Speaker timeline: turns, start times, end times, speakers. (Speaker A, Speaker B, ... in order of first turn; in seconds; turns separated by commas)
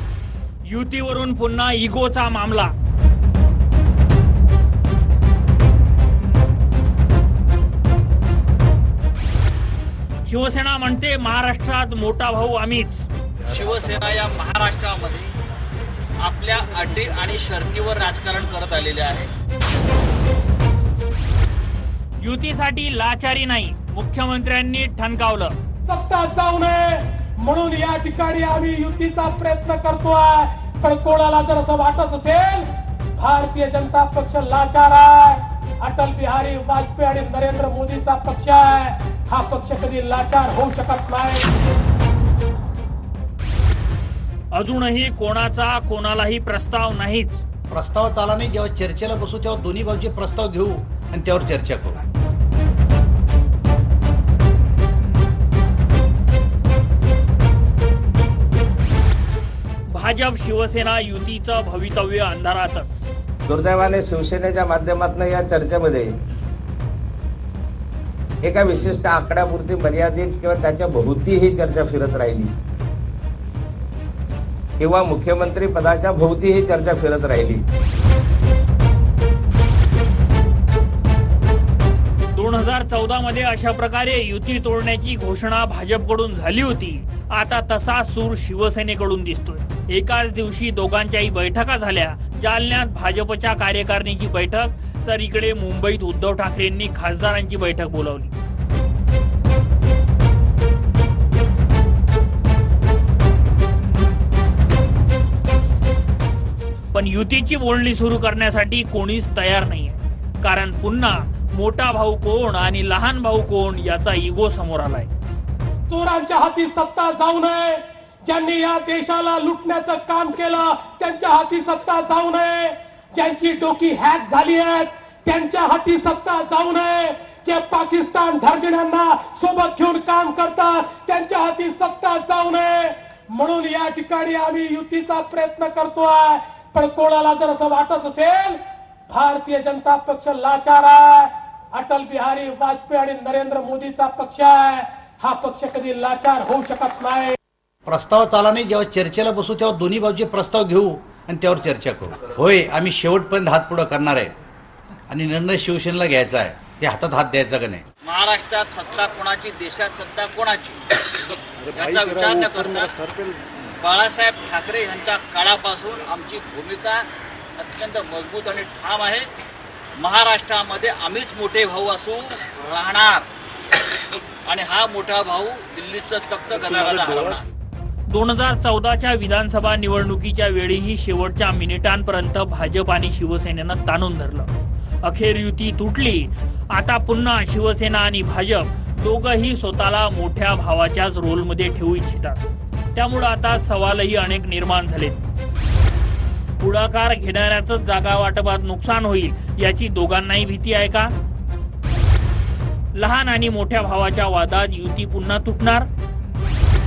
Speaker A: 0.7-2.7, Speaker A: 10.2-13.0, Speaker B: 13.5-15.3, Speaker B: 16.2-19.3, Speaker A: 22.2-25.6, Speaker C: 25.9-41.5, Speaker A: 44.5-47.4, Speaker D: 47.7-52.0, Speaker A: 59.9-63.0, Speaker E: 63.5-66.1, Speaker E: 68.4-72.5, Speaker E: 74.8-77.6, Speaker A: 82.3-98.3, Speaker A: 106.9-115.1, Speaker C: 115.9-147.3, Speaker D: 147.9-154.3, Speaker D: 155.1-157.8, Speaker B: 158.0-160.8, Speaker B: 161.7-163.0, Speaker B: 163.7-167.1, Speaker B: 167.6-169.3, Speaker B: 170.0-173.2, Speaker B: 174.4-177.4, Speaker A: 178.1-184.5, Speaker A: 185.0-192.4, Speaker A: 192.9-195.2, Speaker A: 196.6-201.1, Speaker A: 202.9-205.9